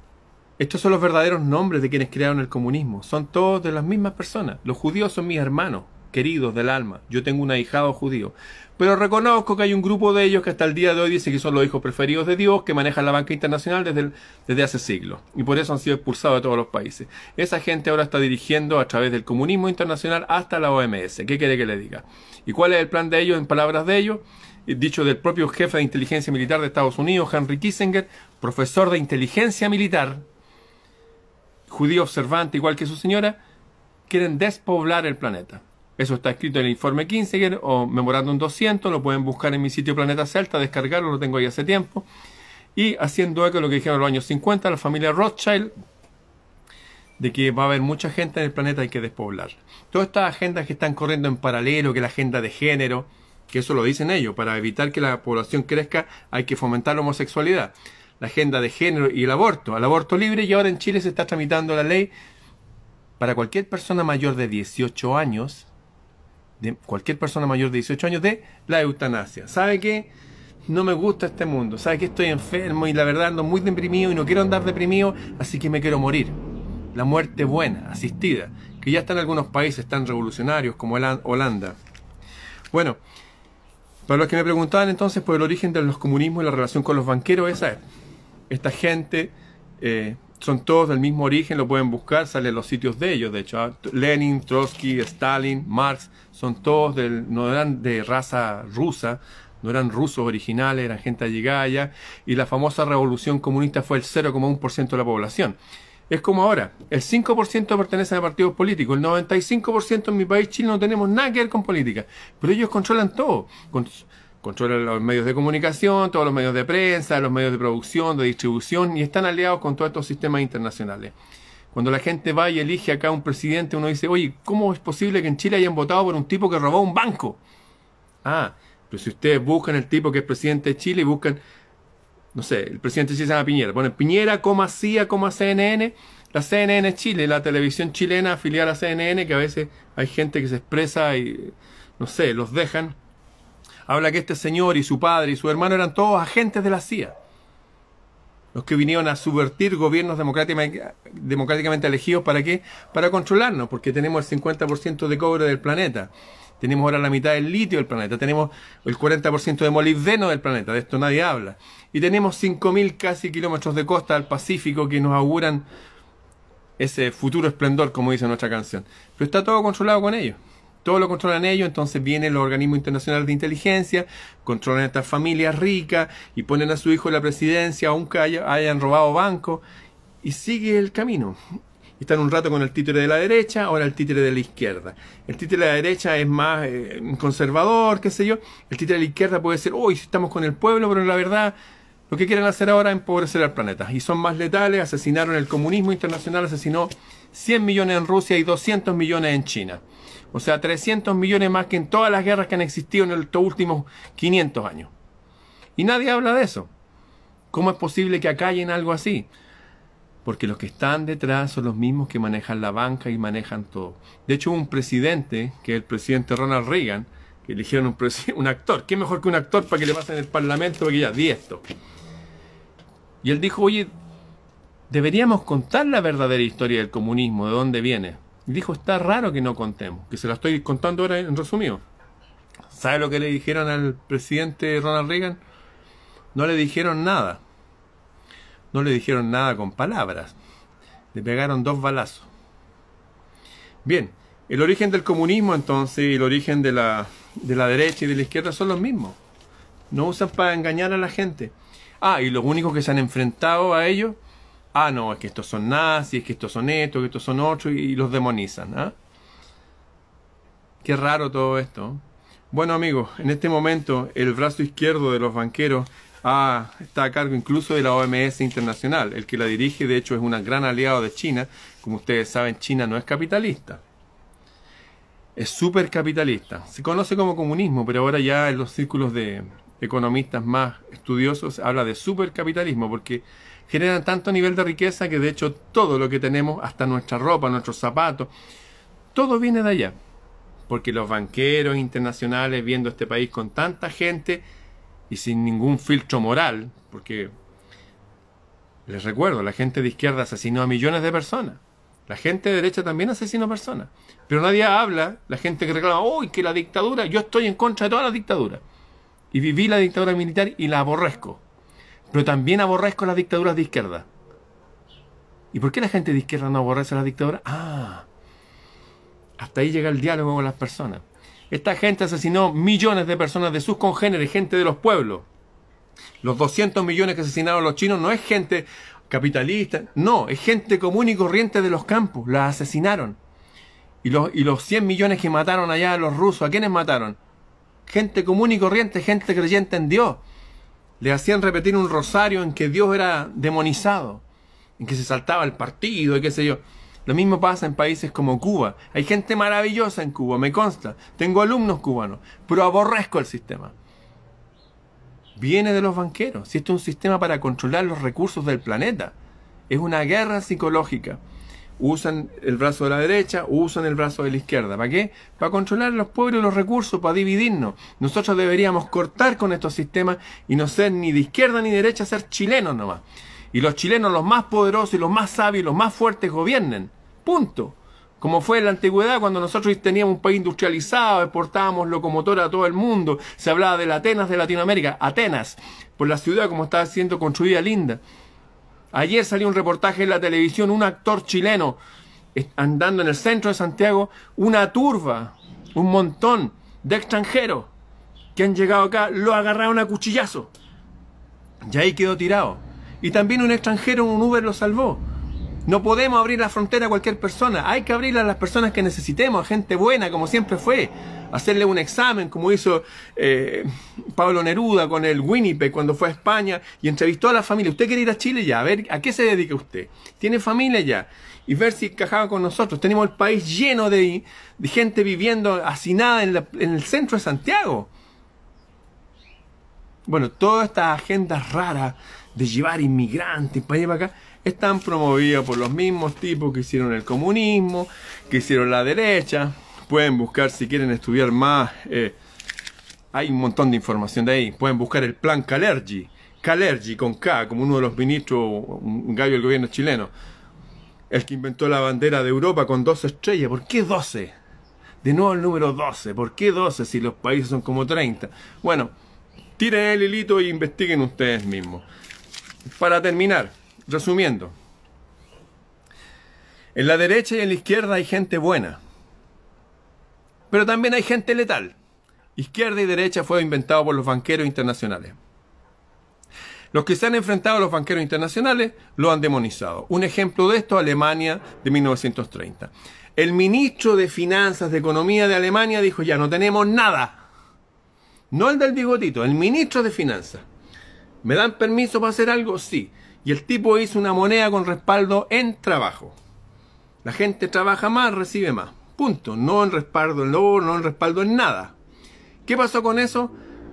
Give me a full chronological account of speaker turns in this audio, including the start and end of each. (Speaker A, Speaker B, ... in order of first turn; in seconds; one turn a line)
Speaker A: 0.6-30.2
Speaker A: 31.7-33.4
Speaker A: 34.1-42.0
Speaker A: 42.7-45.7
Speaker A: 47.2-62.1
Speaker A: 63.2-65.7
Speaker A: 66.6-70.1
Speaker A: 70.7-76.3
Speaker A: 76.9-81.8
Speaker A: 82.7-83.0
Speaker A: 84.1-87.8
Speaker A: 88.5-105.6
Speaker A: 106.1-121.1
Speaker A: 121.7-127.4
Speaker A: 128.2-131.4
Speaker A: 132.3-142.9
Speaker A: 143.9-147.1
Speaker A: 148.5-165.7
Speaker A: 166.8-179.6
Speaker A: 180.2-181.4
Speaker A: 182.0-191.6
Speaker A: 192.1-199.8
Speaker A: 200.3-204.9
Speaker A: 205.8-206.7
Speaker A: 207.5-209.3
Speaker A: 210.2-221.6
Speaker A: 223.2-223.9
Speaker A: 224.9-231.8
Speaker A: 232.7-235.4
Speaker A: 236.3-237.4
Speaker A: 238.7-240.3
Speaker A: 241.1-242.3
Speaker A: 243.8-249.2
Speaker A: 249.9-254.2
Speaker A: 254.7-258.9
Speaker A: 260.8-273.8
Speaker A: 275.4-288.3
Speaker A: 289.1-289.9
Speaker A: 290.7-294.4
Speaker A: 295.1-297.3
Speaker A: 298.9-308.6
Speaker A: 309.3-311.4
Speaker A: 312.1-314.1
Speaker A: 315.5-318.1
Speaker A: 319.4-325.3
Speaker A: 326.2-333.2
Speaker A: 334.0-337.2
Speaker A: 337.9-340.2
Speaker A: 341.0-344.2
Speaker A: 344.8-353.7
Speaker A: 355.4-359.1
Speaker A: 359.7-361.2
Speaker A: 361.8-388.0
Speaker A: 388.9-391.8
Speaker A: 392.3-397.7
Speaker A: 398.3-400.5
Speaker A: 401.6-405.0
Speaker A: 405.6-427.9
Speaker A: 430.1-442.2
Speaker A: 443.1-450.1
Speaker A: 451.1-454.3
Speaker A: 455.0-458.9
Speaker A: 459.6-461.8
Speaker A: 462.8-464.5
Speaker A: 466.7-468.8
Speaker A: 470.5-471.8
Speaker A: 472.4-475.1
Speaker A: 476.7-487.2
Speaker A: 488.3-490.4
Speaker A: 491.2-496.1
Speaker A: 497.0-501.8
Speaker A: 502.4-503.3